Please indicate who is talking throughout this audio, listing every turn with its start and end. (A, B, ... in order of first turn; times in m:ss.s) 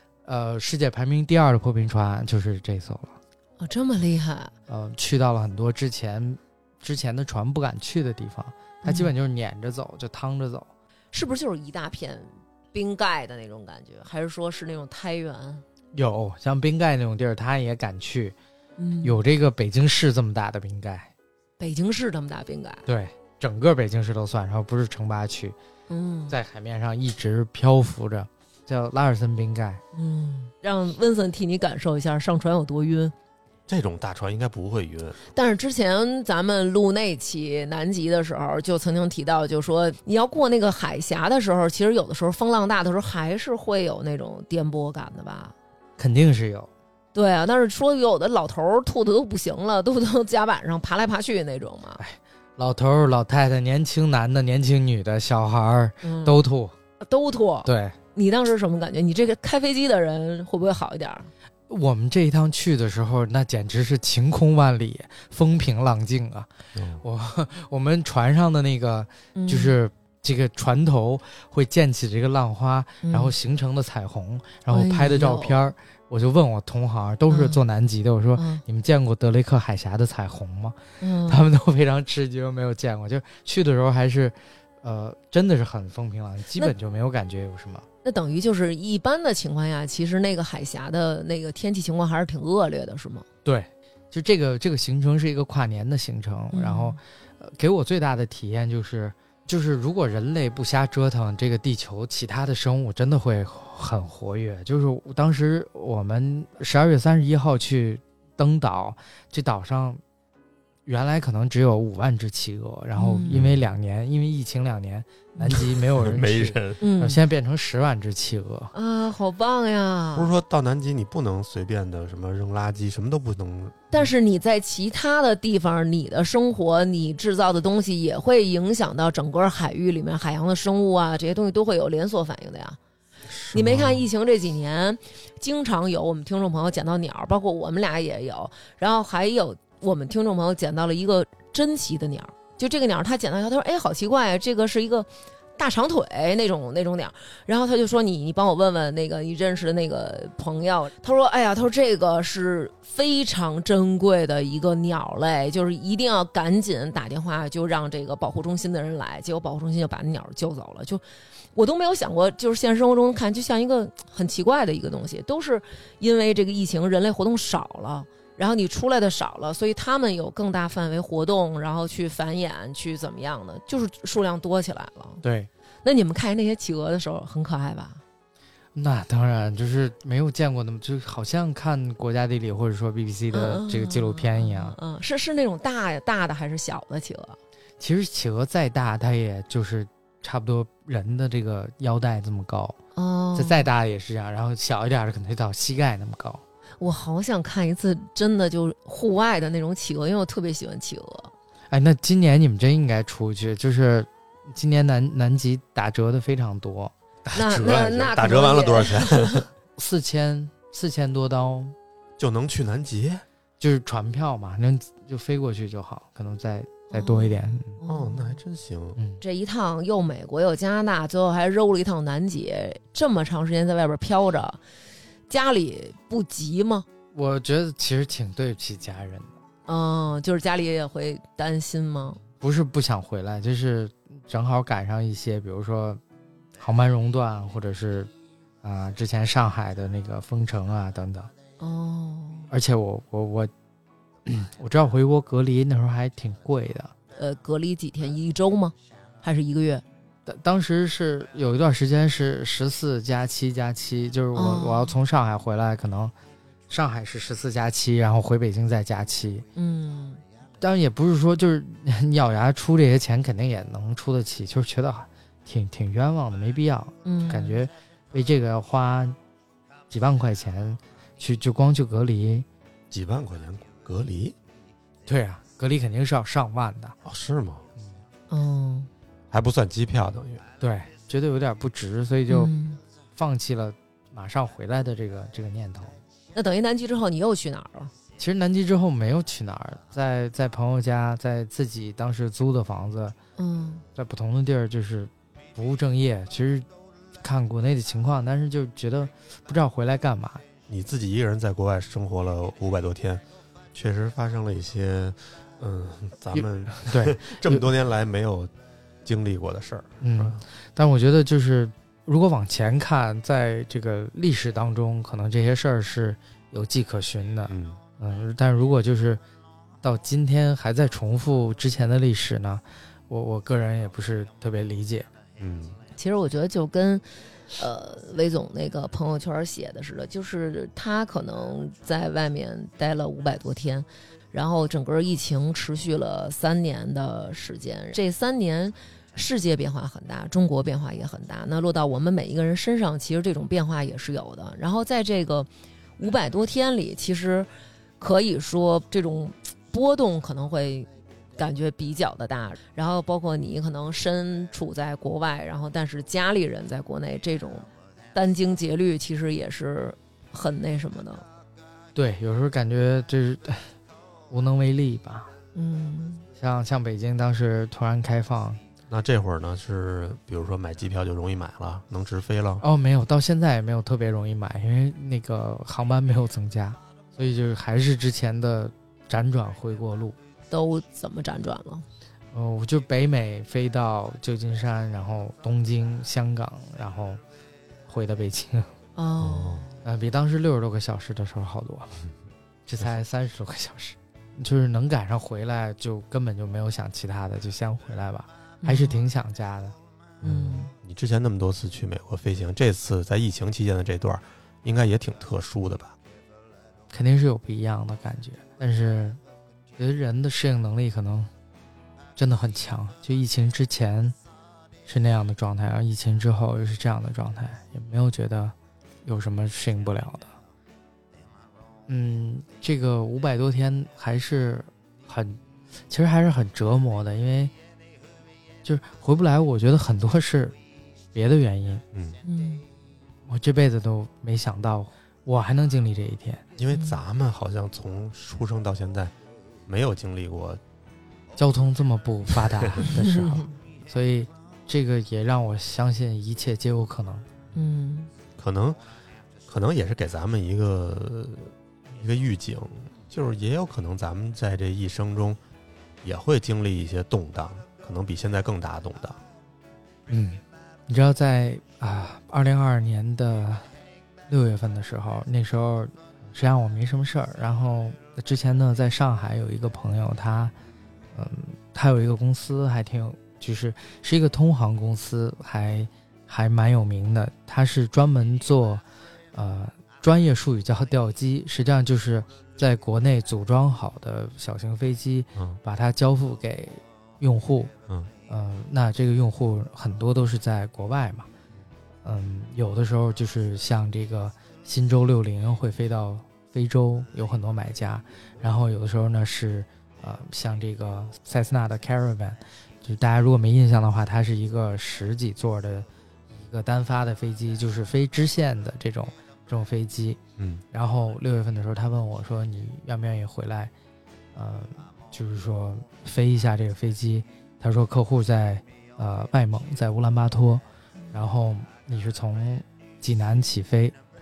0:00.2-0:03.2 A
0:03.6-0:04.5 B
0:04.7-0:10.7 A
0:08.8-0:09.1 B
0:11.1-0:15.6 B
0:15.9-0:18.4 A
0:18.8-0:19.2 B
0:19.0-0:21.1 A
0:21.6-0:22.9 B
0:22.9-0:25.6 A
0:25.9-0:26.4 B
0:26.3-0:29.8 A
0:29.9-0:33.1 B
0:33.7-0:35.2 C
0:35.3-0:45.6 B
0:46.0-0:46.7 A
0:47.1-0:52.0 B
0:52.0-0:56.8 A
0:56.0-0:56.4 B
0:57.0-1:01.3 B
0:57.6-0:58.0 A
1:01.7-1:27.9 A
1:06.8-1:07.0 C
1:09.4-1:09.8 B
1:13.0-1:13.3 B
1:14.7-1:15.6 B
1:17.3-1:17.6 B
1:18.4-1:18.6 B
1:21.0-1:21.4 B
1:28.0-1:33.3 B
1:33.4-1:50.0 A
1:36.5-1:37.0 B
1:50.9-1:58.7 A
1:53.0-1:53.4 B
1:53.3-1:53.6 C
1:55.6-1:56.8 C
1:56.8-1:57.2 B
1:58.7-2:00.3 B
2:00.2-2:04.1 C
2:03.9-2:12.8 B
2:13.3-2:14.1 C
2:13.5-2:41.0 B
2:41.5-2:55.2 B
2:55.2-2:55.5 A
2:55.8-2:58.0 B
2:58.7-3:04.8 A
3:03.3-3:07.4 B
3:07.8-3:12.8 A
3:13.0-3:13.7 B
3:13.4-3:16.4 A
3:16.8-3:21.3 B
3:21.7-3:26.9 A
3:27.3-3:29.5 C
3:27.3-3:29.4 B
3:29.8-3:31.8 A
3:32.2-3:33.2 C
3:33.6-3:37.8 A
3:36.9-3:38.4 B
3:37.9-3:39.0 C
3:39.0-3:39.2 A
3:39.2-3:44.6 B
3:45.3-3:46.9 B
3:47.1-3:49.3 A
3:49.7-3:52.2 B
3:52.4-3:56.0 A
3:56.6-3:58.1 A
3:58.6-4:01.3 A
4:01.6-4:02.5 B
4:02.5-4:03.5 A
4:04.2-4:06.9 A
4:07.2-4:09.8 B
4:10.3-4:16.1 A
4:14.4-4:15.0 B
4:16.7-4:19.5 A
4:19.6-4:20.2 B
4:20.6-4:29.2 A
4:27.0-4:27.6 B
4:29.9-4:32.5 A
4:32.9-4:34.4 C
4:35.1-4:37.0 A
4:37.0-4:37.7 C
4:38.3-4:38.9 B
4:39.3-4:40.4 C
4:40.6-4:42.5 A
4:42.3-4:42.8 B
4:43.2-4:45.9 A
4:46.3-4:47.9 B
4:48.2-4:53.2 A
4:53.4-4:53.8 B
4:54.0-4:56.7 A
4:57.2-5:00.4 A
5:00.7-5:03.2 C
5:03.7-5:08.5 C
5:06.4-5:07.7 A
5:09.0-5:10.4 C
5:10.0-5:19.2 A
5:17.5-5:17.8 C
5:19.8-5:25.1 A
5:25.4-5:25.8 C
5:26.0-6:01.2 B
6:02.0-6:03.8 A
6:04.3-6:05.3 A
6:05.6-6:06.3 B
6:06.4-6:08.6 A
6:08.9-6:12.6 C
6:12.6-6:20.2 A
6:20.5-6:21.9 B
6:22.3-6:27.2 A
6:27.9-6:28.7 A
6:29.0-6:29.8 B
6:29.2-6:29.6 C
6:29.8-6:32.0 A
6:32.7-6:39.8 A
6:38.6-6:39.0 B
6:40.2-6:40.7 B
6:40.2-6:46.0 C
6:46.9-6:49.2 A
6:49.8-6:51.3 A
6:52.2-6:54.2 A
6:54.9-7:00.4 A
7:01.9-7:07.5 A
7:08.6-7:10.6 A
7:11.1-7:11.8 A
7:11.9-7:12.2 C
7:12.2-7:12.6 B
7:13.3-7:16.4 A
7:16.6-7:19.1 C
7:16.7-7:17.0 B
7:19.7-7:20.6 C
7:21.4-7:27.3 A
7:23.0-7:23.5 B
7:27.6-7:28.1 B
7:28.4-7:28.8 C
7:29.5-7:35.4 C
7:36.0-7:39.2 C
7:40.1-7:43.7 A
7:44.3-7:50.5 A
7:51.1-8:07.7 A
8:08.3-8:11.3 A
8:12.0-8:30.2 A
8:30.4-8:30.6 C
8:30.7-8:33.7 A
8:34.4-8:44.0 A